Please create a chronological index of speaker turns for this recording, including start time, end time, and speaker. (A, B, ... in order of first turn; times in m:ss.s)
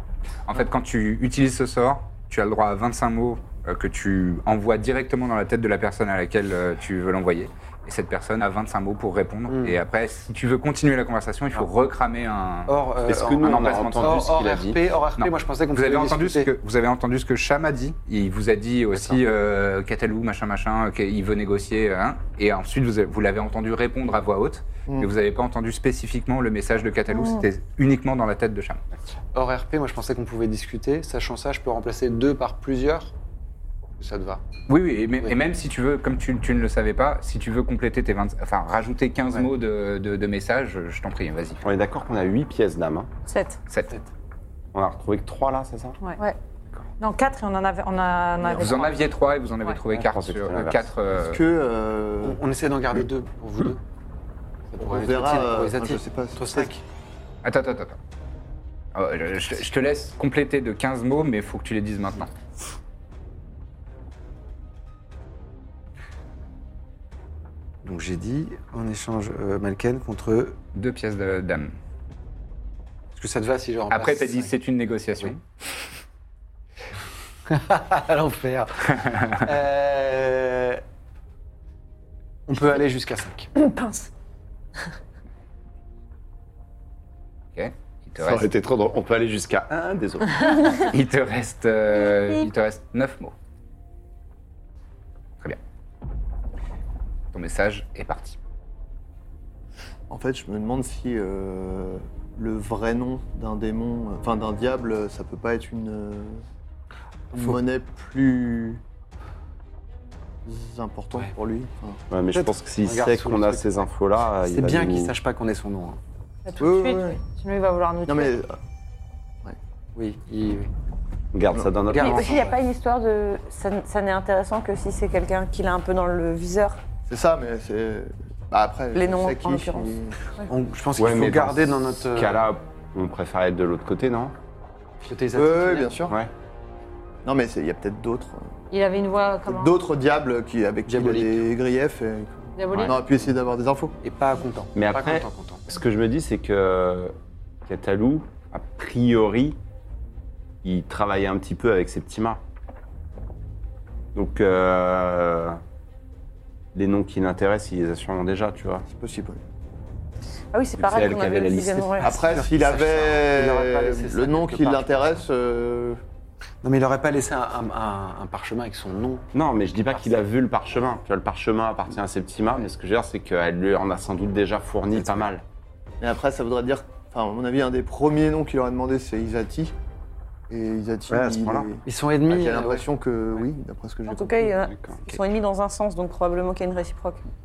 0:00.4-0:12.8 A
0:09.5-0:09.8 B
0:12.7-0:16.5 B
0:13.0-0:14.8 C
0:13.4-0:14.1 A
0:15.2-0:28.8 A
0:18.9-0:19.2 B
0:29.3-0:33.1 B
0:34.0-0:34.4 B
0:34.7-0:41.6 A
0:41.6-0:43.1 C
0:43.2-0:43.6 D
0:44.7-0:46.0 C
0:47.0-0:49.1 D
0:48.5-0:51.4 A
0:49.9-0:50.9 C
0:51.2-0:52.4 E
0:52.2-0:53.8 B
0:54.7-0:56.8 B
0:54.8-0:56.7 E
0:57.4-0:58.0 A
0:58.9-1:02.3 A
1:07.8-1:10.6 B
1:10.7-1:11.8 A
1:13.1-1:14.6 B
1:13.9-1:15.8 A
1:17.5-1:20.8 B
1:19.0-1:19.4 A
1:22.5-1:23.5 B
1:23.6-1:24.1 D
1:27.5-1:28.5 A
1:28.2-1:30.9 C
1:30.8-1:33.3 A
1:37.3-1:38.4 A
1:40.1-1:46.4 E
1:47.3-1:48.8 E
1:50.4-1:52.0 E
1:52.1-1:55.1 C
1:52.3-1:53.9 B
1:54.4-1:56.0 B
1:56.4-1:58.4 D
1:56.6-1:57.2 E
1:58.0-1:58.6 E
1:59.9-2:00.7 B
2:01.3-2:02.3 C
2:01.9-2:02.6 B
2:01.9-2:06.8 F
2:07.1-2:10.2 E
2:08.9-2:10.4 F
2:10.5-2:12.4 B
2:11.0-2:14.3 C
2:15.0-2:16.1 B
2:15.3-2:16.2 E
2:16.1-2:16.3 C
2:17.2-2:18.5 E
2:18.7-2:19.8 D
2:19.5-2:23.9 E
2:20.9-2:21.5 B
2:22.6-2:23.0 D
2:22.7-2:23.0 B
2:24.0-2:25.7 B
2:24.7-2:29.6 C
2:30.6-2:32.4 C
2:34.1-2:35.6 C
2:36.7-2:38.8 C
2:38.9-2:39.4 E
2:40.5-2:42.2 F
2:40.8-2:42.1 C
2:42.0-2:46.0 E
2:42.0-2:45.2 B
2:46.6-2:49.3 B
2:49.3-2:55.4 C
2:56.0-2:59.7 E
3:00.5-3:04.6 E
3:01.1-3:02.8 B
3:04.0-3:07.3 F
3:04.6-3:05.2 C